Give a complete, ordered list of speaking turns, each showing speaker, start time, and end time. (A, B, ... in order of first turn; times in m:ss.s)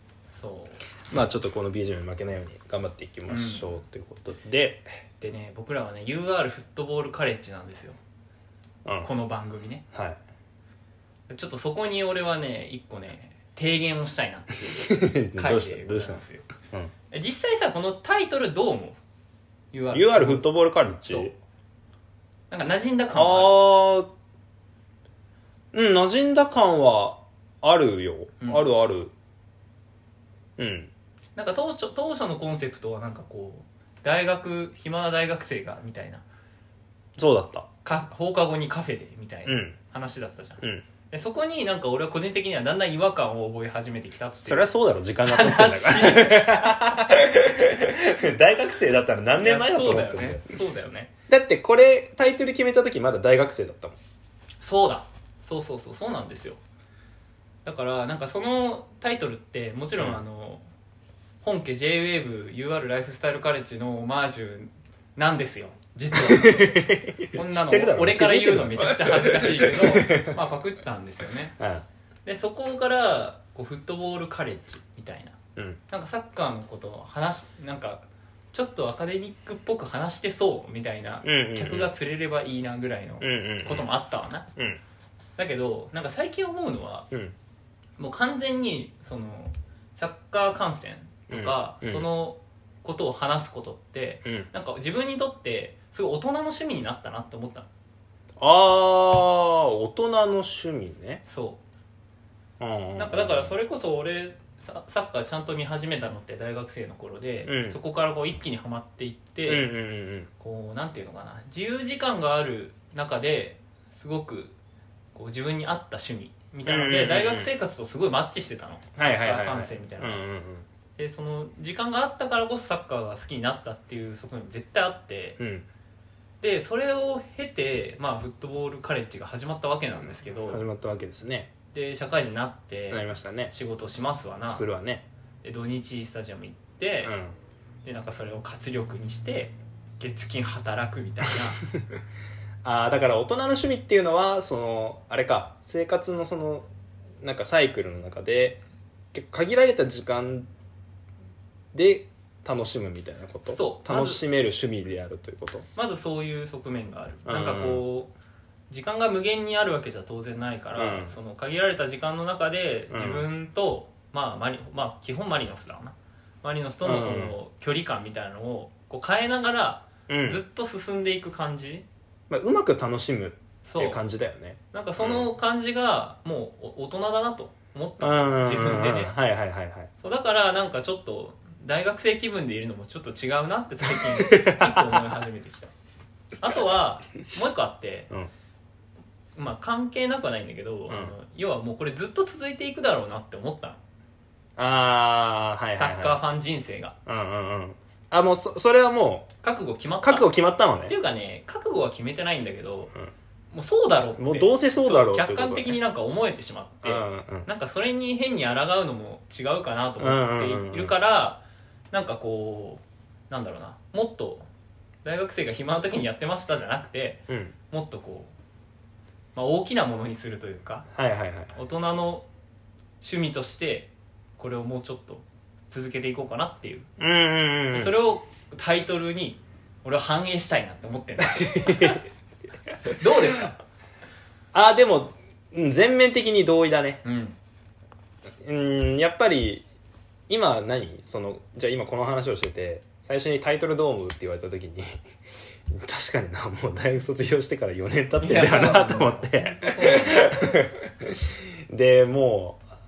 0:00.3-0:00.8 A
0:01.1-0:04.9 B
0:03.3-0:03.8 A
0:05.2-0:08.0 A
0:08.8-0:09.1 B
0:09.0-0:09.8 A
0:09.9-0:10.2 B
0:11.3-0:16.5 A
0:14.8-0:16.9 B
0:17.1-0:19.0 A
0:19.7-0:20.5 A
0:19.9-0:21.3 B
0:21.1-0:21.3 A
0:22.5-0:23.6 A
0:23.1-0:24.1 B
0:25.7-0:29.1 B
0:28.4-0:28.6 A
0:30.6-0:30.9 B
0:31.4-0:36.2 A
0:37.2-0:37.7 B
0:37.8-0:44.7 A
0:39.5-0:39.8 B
0:44.4-0:50.5 B
0:45.2-0:46.9 A
0:49.4-0:51.1 A
0:51.3-0:54.0 B
0:54.6-0:56.6 A
0:57.6-1:00.6 A
1:01.4-1:11.6 A
1:06.1-1:10.4 B
1:11.6-1:11.8 B
1:12.3-1:15.4 A
1:15.9-1:24.5 A
1:21.2-1:21.9 B
1:23.2-1:23.9 B
1:24.6-1:24.8 B
1:25.4-1:27.1 A
1:27.1-1:27.4 B
1:28.0-1:37.7 A
1:31.3-1:32.1 B
1:38.4-1:41.2 B
1:41.3-1:41.6 A
1:42.6-1:43.5 B
1:43.0-1:49.7 A
1:47.4-1:47.8 B
1:49.5-1:50.3 B
1:50.4-1:54.5 A
1:55.2-2:00.2 A
1:56.7-1:57.5 B
1:59.0-2:00.7 B
2:01.0-2:05.4 A
2:05.4-2:05.7 B
2:06.4-2:10.6 A
2:10.0-2:11.5 B
2:11.7-2:14.7 A
2:12.9-2:13.5 B
2:14.5-2:15.0 B
2:15.4-2:17.1 A
2:17.0-2:17.4 B
2:17.8-2:21.6 A
2:22.6-2:26.7 B
2:27.2-2:28.6 B
2:29.1-2:30.5 B
2:31.7-2:35.7 B
2:33.5-2:34.2 A
2:35.8-2:38.1 A
2:37.3-2:37.8 B
2:38.7-2:51.8 A
2:40.8-2:41.2 B
2:42.9-2:43.3 B
2:46.8-2:47.4 B
2:50.1-2:50.4 B
2:52.3-2:55.3 B
2:53.6-2:54.0 A
2:54.7-2:59.1 A
2:58.0-2:59.9 B
3:00.0-3:05.7 A
3:03.9-3:05.0 B
3:06.4-3:08.1 A
3:09.3-3:13.8 A
3:10.9-3:11.1 B
3:14.6-3:16.2 B
3:15.8-3:17.0 A
3:17.1-3:19.3 B
3:19.4-3:20.3 A
3:20.0-3:21.0 B
3:20.8-3:22.9 A
3:23.5-3:34.5 A
3:24.2-3:25.8 B
3:26.8-3:27.5 B
3:30.0-3:30.9 B
3:35.0-3:38.3 A
3:37.3-3:37.5 B
3:39.3-3:40.9 A
3:40.9-3:41.5 B
3:41.5-3:42.3 A
3:43.0-3:46.9 A
3:47.0-3:48.0 B
3:47.7-3:52.1 A
3:51.6-3:52.0 B
3:52.9-3:53.6 A
3:54.5-3:57.0 B
3:57.0-3:57.4 A
3:58.4-3:59.6 B
4:00.3-4:05.0 B
4:05.7-4:12.6 B
4:08.2-4:10.4 A